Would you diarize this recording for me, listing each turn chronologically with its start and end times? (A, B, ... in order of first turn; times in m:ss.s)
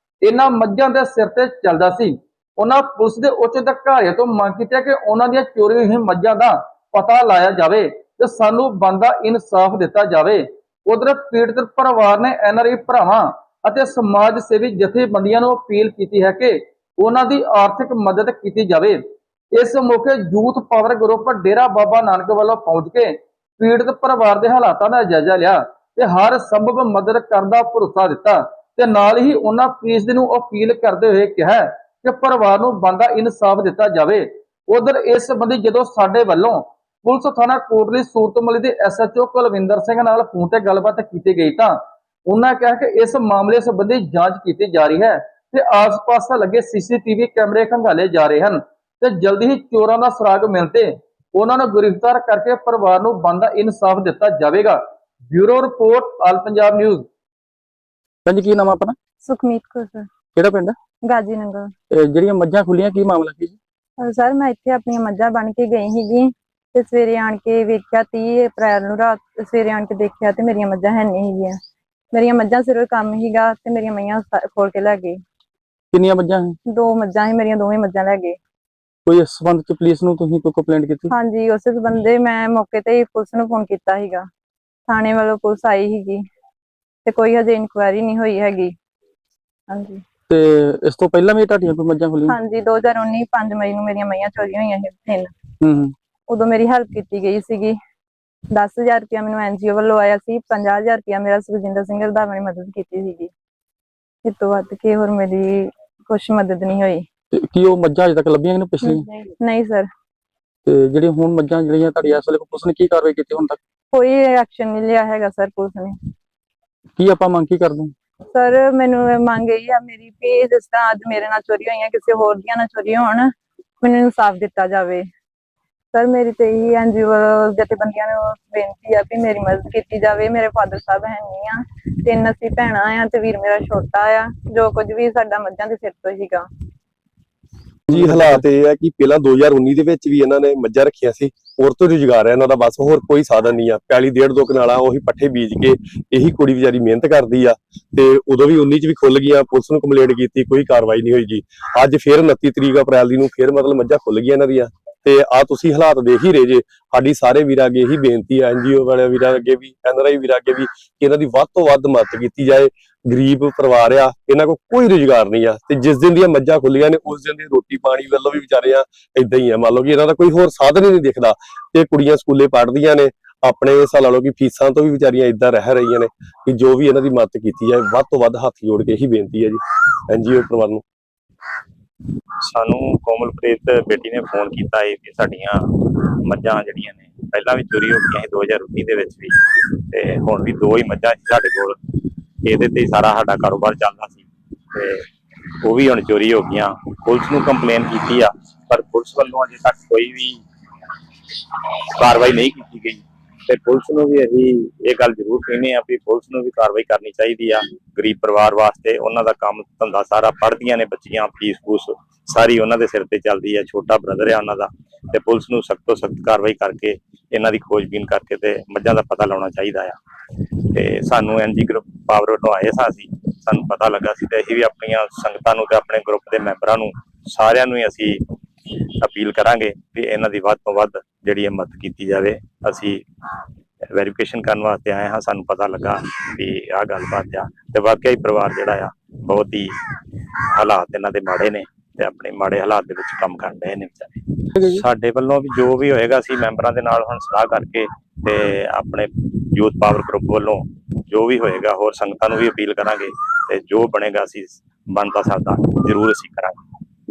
0:00.2-0:19.0 A
0:19.5-0:57.0 A
0:58.2-0:59.0 B
0:59.2-1:00.1 C
1:00.3-1:00.8 B
1:01.1-1:01.7 C
1:01.9-1:03.6 B
1:04.0-1:11.6 C
1:12.1-1:15.2 C
1:15.9-1:16.6 B
1:16.7-1:18.4 C
1:19.0-1:21.1 B
1:21.1-1:24.2 C
1:24.9-1:26.2 C
1:27.0-1:28.7 C
1:29.7-1:30.0 C
1:30.3-1:32.4 B
1:32.3-1:35.3 C
1:35.6-1:35.9 B
1:36.3-1:37.8 C
1:38.5-1:43.3 C
1:44.2-1:47.0 C
1:47.3-1:49.0 B
1:48.8-1:49.9 C
1:50.6-1:53.6 B
1:53.9-1:56.0 C
1:57.0-1:57.9 B
1:58.3-2:05.0 C
2:05.9-2:16.4 C
2:17.9-2:18.4 B
2:17.9-3:00.8 D
3:02.4-3:11.8 E
3:12.4-3:15.0 E
3:15.6-3:20.4 E
3:22.0-3:40.0 E
3:40.7-3:48.2 E
3:49.0-3:53.0 E
3:53.9-3:59.7 E
4:00.5-4:16.6 E